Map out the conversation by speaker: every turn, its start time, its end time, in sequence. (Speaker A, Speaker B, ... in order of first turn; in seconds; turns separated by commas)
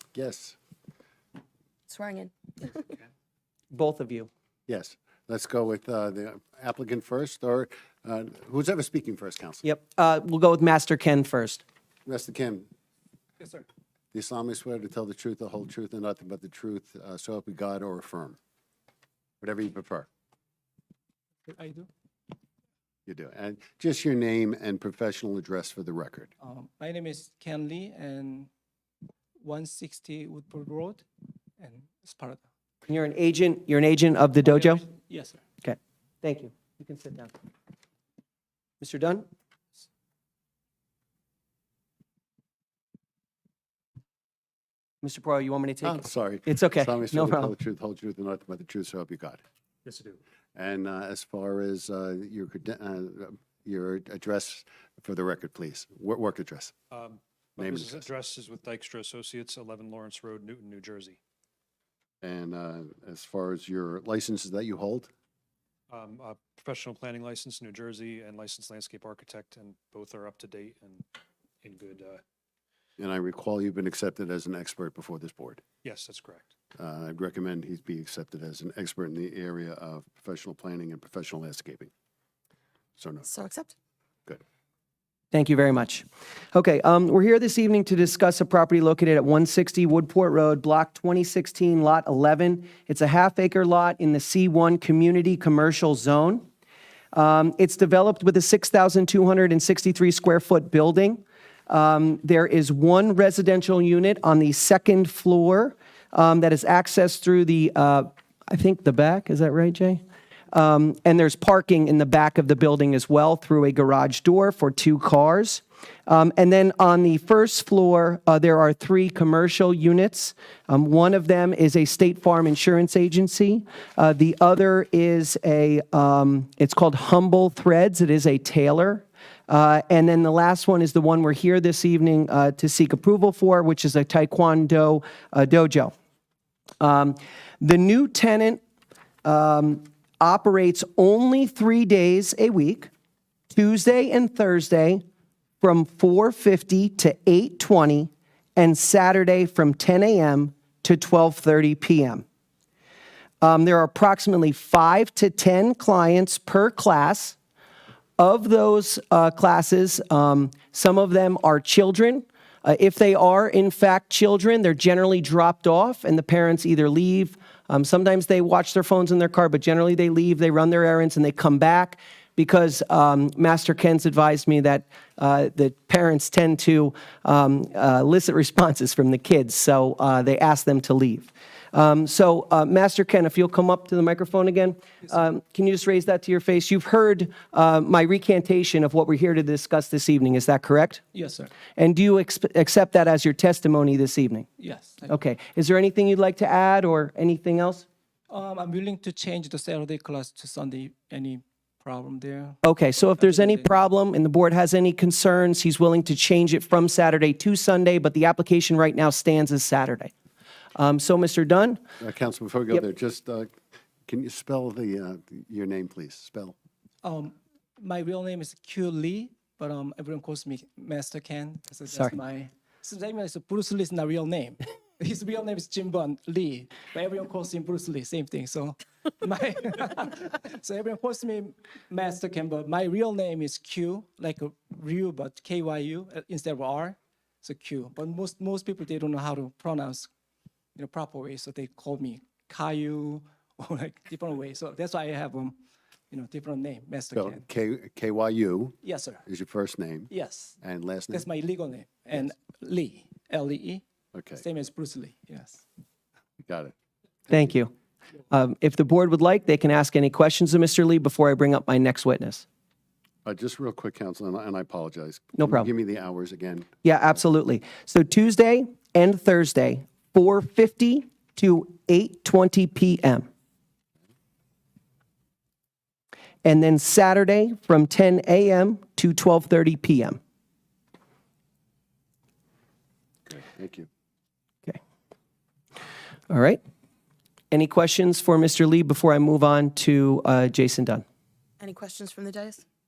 Speaker A: 0.1-0.6, Speaker B: 1.9-2.8, Speaker C: 3.7-4.3, Speaker A: 4.7-9.6, Speaker C: 9.6-11.6, Speaker A: 12.1-12.7, Speaker D: 13.4-13.7, Speaker A: 14.1-18.4, Speaker A: 19.4-20.1, Speaker D: 21.5-21.9, Speaker A: 23.1-26.3, Speaker D: 26.4-28.5, Speaker D: 29.4-31.1, Speaker D: 31.6-32.4, Speaker C: 32.9-34.8, Speaker D: 34.4-35.4, Speaker C: 35.6-37.3, Speaker C: 38.8-39.3, Speaker C: 45.0-47.5, Speaker A: 45.8-49.4, Speaker E: 49.9-50.2, Speaker A: 50.6-56.7, Speaker E: 56.9-61.2, Speaker A: 57.6-58.1, Speaker A: 62.2-65.1, Speaker E: 65.9-71.1, Speaker E: 71.6-72.2, Speaker A: 73.0-75.6, Speaker E: 75.8-76.5, Speaker A: 76.8-81.9, Speaker A: 83.0-83.3, Speaker B: 83.3-83.7, Speaker C: 85.3-96.5, Speaker C: 97.1-135.9, Speaker C: 136.8-138.6, Speaker C: 139.2-142.9, Speaker C: 143.5-145.0, Speaker C: 145.6-152.2, Speaker C: 153.4-157.4, Speaker C: 158.2-191.0, Speaker D: 191.1-191.5, Speaker C: 191.8-194.5, Speaker D: 194.6-195.2, Speaker C: 195.1-197.8, Speaker D: 198.3-202.6, Speaker C: 202.6-210.1, Speaker D: 203.2-203.8, Speaker C: 210.8-211.8, Speaker A: 212.0-213.6, Speaker A: 214.1-216.6, Speaker D: 217.0-240.1, Speaker D: 240.8-245.6, Speaker D: 246.1-247.4, Speaker A: 247.2-251.2, Speaker D: 248.8-249.2, Speaker D: 250.1-250.6, Speaker D: 251.1-253.8, Speaker A: 254.1-254.4, Speaker D: 254.4-255.6, Speaker A: 256.4-256.7, Speaker A: 257.3-257.5, Speaker C: 257.3-257.7, Speaker C: 258.3-262.4, Speaker A: 263.2-266.7, Speaker C: 265.4-265.7, Speaker C: 266.8-273.3, Speaker C: 276.4-280.2, Speaker A: 283.3-283.9, Speaker C: 286.3-286.6, Speaker C: 287.5-291.0, Speaker B: 291.6-292.6